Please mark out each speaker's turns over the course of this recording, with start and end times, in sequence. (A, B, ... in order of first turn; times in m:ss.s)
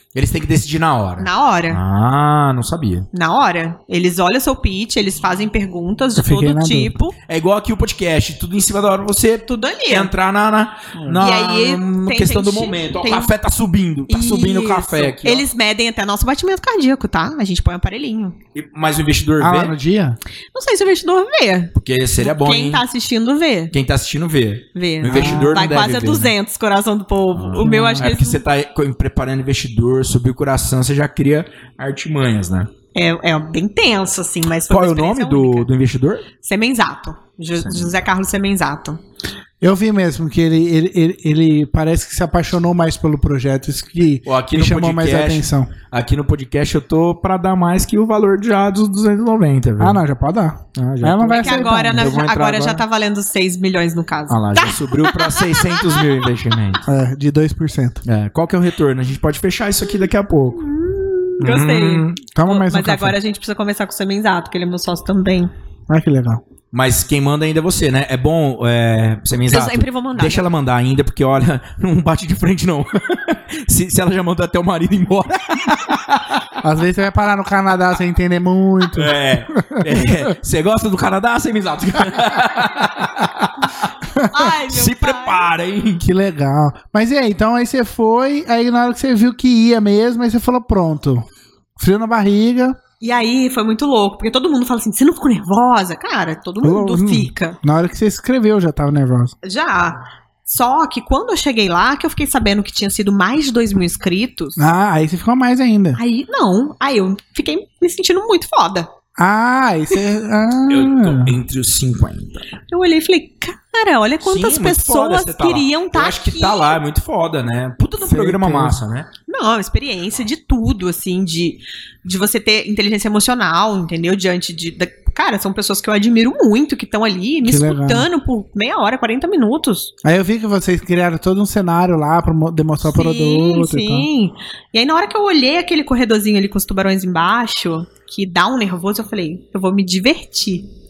0:00.1-0:03.1 A
0:01.2-0:01.8 B
0:03.1-0:07.2 B
0:06.2-0:06.9 C
0:07.3-0:15.5 A
0:09.5-0:10.1 B
0:11.2-0:13.3 B
0:14.1-0:18.4 B
0:18.5-0:19.7 A
0:19.4-0:20.2 C
0:20.5-0:23.7 B
0:21.7-0:22.8 A
0:23.7-0:26.3 A
0:24.7-0:28.4 B
0:25.1-0:25.5 C
0:27.3-0:32.7 A
0:27.6-0:28.1 C
0:32.9-0:35.7 B
0:34.7-0:36.3 A
0:36.4-0:39.0 B
0:37.6-0:37.9 A
0:39.6-0:45.7 C
0:44.2-0:50.0 A
0:49.8-0:52.2 C
0:50.7-0:52.8 A
0:51.3-0:56.2 B
0:54.3-0:56.8 A
0:56.8-0:58.0 C
0:58.0-1:00.6 A
1:00.6-1:05.5 B
1:01.4-1:02.2 A
1:02.3-1:03.2 C
1:05.9-1:06.4 C
1:06.7-1:16.4 A
1:09.5-1:10.5 B
1:16.6-1:20.1 C
1:18.9-1:23.8 A
1:24.2-1:25.5 B
1:24.6-1:26.0 A
1:26.0-1:31.2 C
1:31.8-1:32.8 C
1:33.0-1:37.6 B
1:36.6-1:39.3 C
1:39.4-1:44.6 B
1:44.6-1:46.0 C
1:46.0-1:48.9 B
1:49.2-1:51.4 C
1:50.7-1:52.5 A
1:52.7-1:56.8 B
1:54.2-1:59.1 A
1:58.0-1:58.8 C
1:59.3-2:09.9 B
2:07.4-2:08.1 C
2:10.0-2:14.1 C
2:12.8-2:20.7 B